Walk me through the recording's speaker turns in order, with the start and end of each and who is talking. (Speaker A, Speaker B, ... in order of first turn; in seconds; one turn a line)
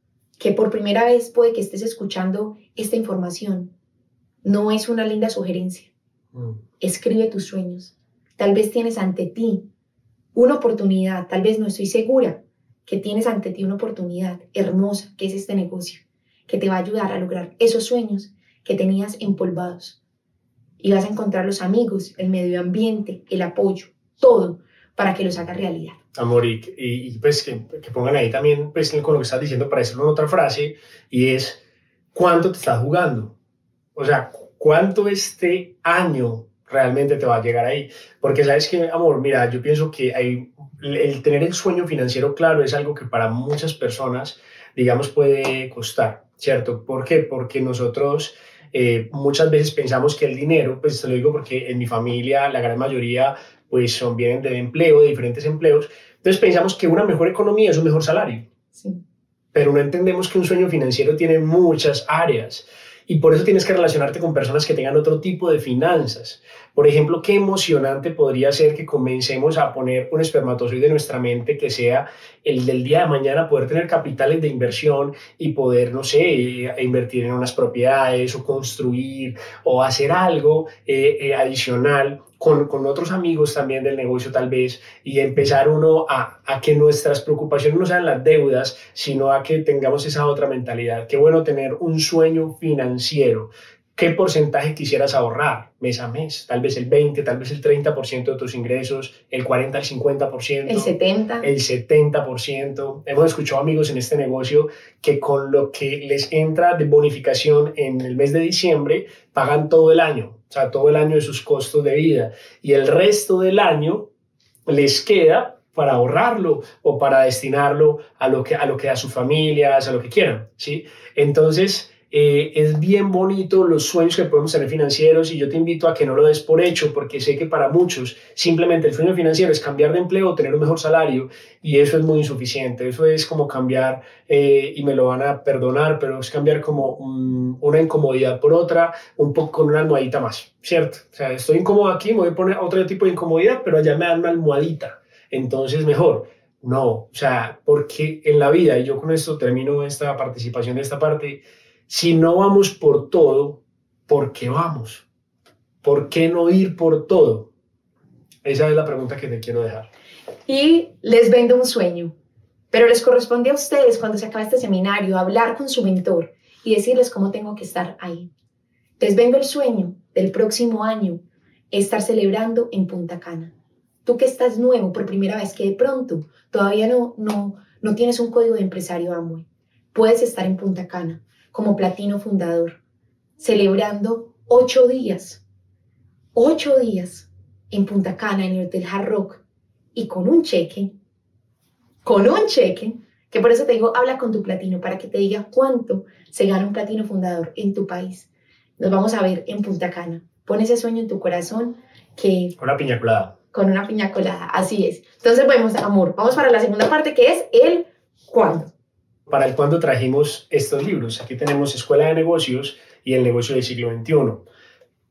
Speaker A: 0.4-3.7
Speaker A: 4.4-5.9
Speaker A: 6.8-9.7
Speaker A: 10.3-20.0
Speaker A: 20.8-26.0
Speaker B: 26.1-31.6
Speaker B: 32.1-33.3
Speaker B: 34.0-58.5
Speaker A: 58.8-59.0
Speaker B: 59.5-114.1
Speaker A: 100.7-101.5
Speaker B: 114.7-155.1
Speaker B: 155.8-157.5
Speaker B: 158.4-159.9
Speaker A: 160.5-162.1
Speaker A: 162.7-168.3
Speaker A: 169.0-173.5
Speaker A: 174.1-182.8
Speaker A: 183.4-185.4
Speaker A: 186.3-189.4
Speaker A: 189.9-190.9
Speaker A: 192.0-202.6
Speaker B: 202.6-203.3
Speaker A: 203.5-208.7
Speaker B: 209.3-214.4